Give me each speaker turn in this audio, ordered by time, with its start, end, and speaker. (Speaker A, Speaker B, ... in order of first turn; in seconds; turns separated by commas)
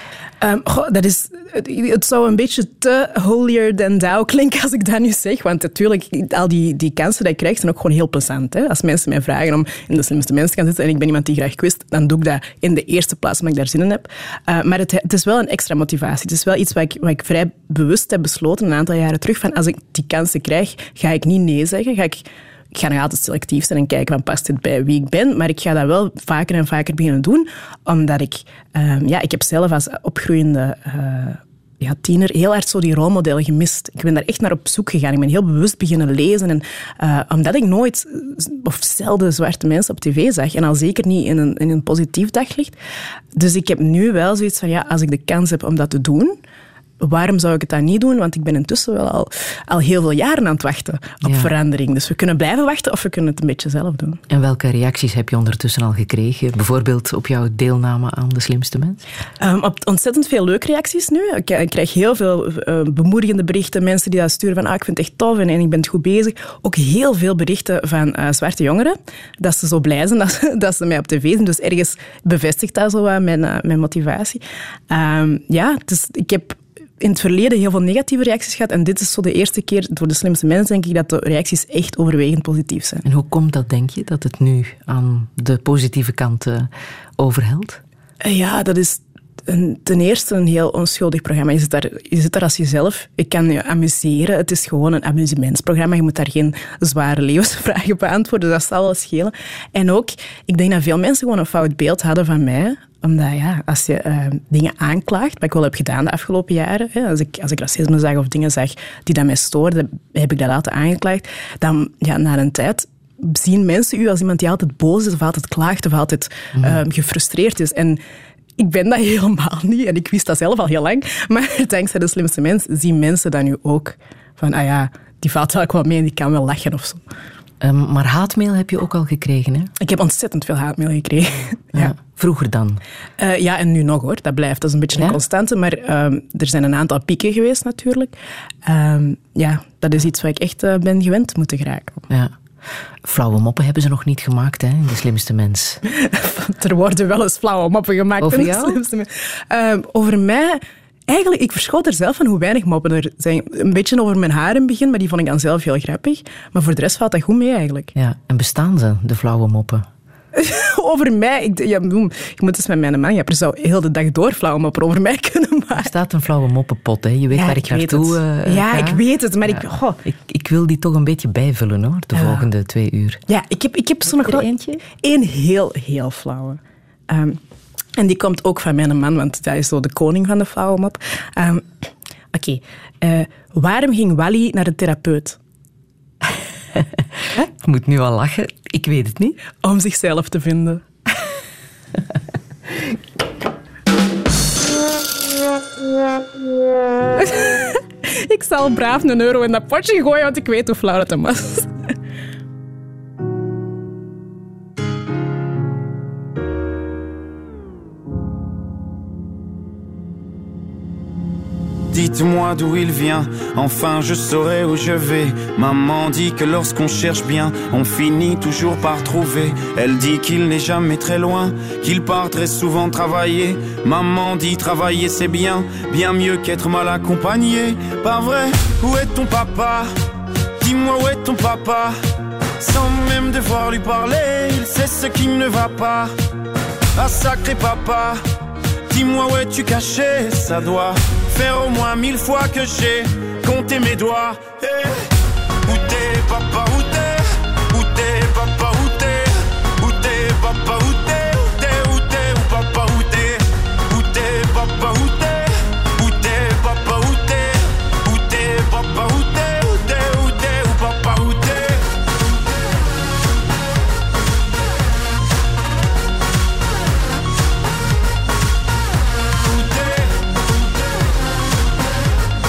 Speaker A: 0.4-42.8, Speaker A: 43.4-46.4, Speaker A: 47.0-54.2, Speaker B: 51.2-51.5, Speaker B: 54.3-59.0, Speaker A: 59.4-83.0, Speaker B: 83.0-87.8, Speaker A: 88.2-118.0, Speaker A: 118.6-127.0, Speaker B: 127.6-129.7, Speaker A: 129.8-131.9, Speaker B: 131.7-132.8, Speaker A: 133.2-142.0, Speaker B: 143.0-145.8, Speaker A: 145.8-157.9, Speaker B: 148.2-148.8, Speaker B: 157.9-159.9, Speaker A: 160.3-165.9, Speaker B: 165.8-173.2, Speaker A: 167.3-170.0, Speaker A: 172.2-172.5, Speaker A: 173.3-177.4, Speaker B: 174.1-174.8, Speaker A: 178.0-181.7, Speaker A: 182.3-185.4, Speaker B: 186.8-189.4, Speaker A: 189.6-190.8, Speaker A: 197.2-201.7, Speaker C: 211.9-229.9, Speaker C: 230.6-232.0, Speaker C: 232.6-236.1, Speaker C: 236.9-238.2, Speaker C: 238.9-245.1, Speaker C: 245.7-261.9, Speaker C: 269.5-270.0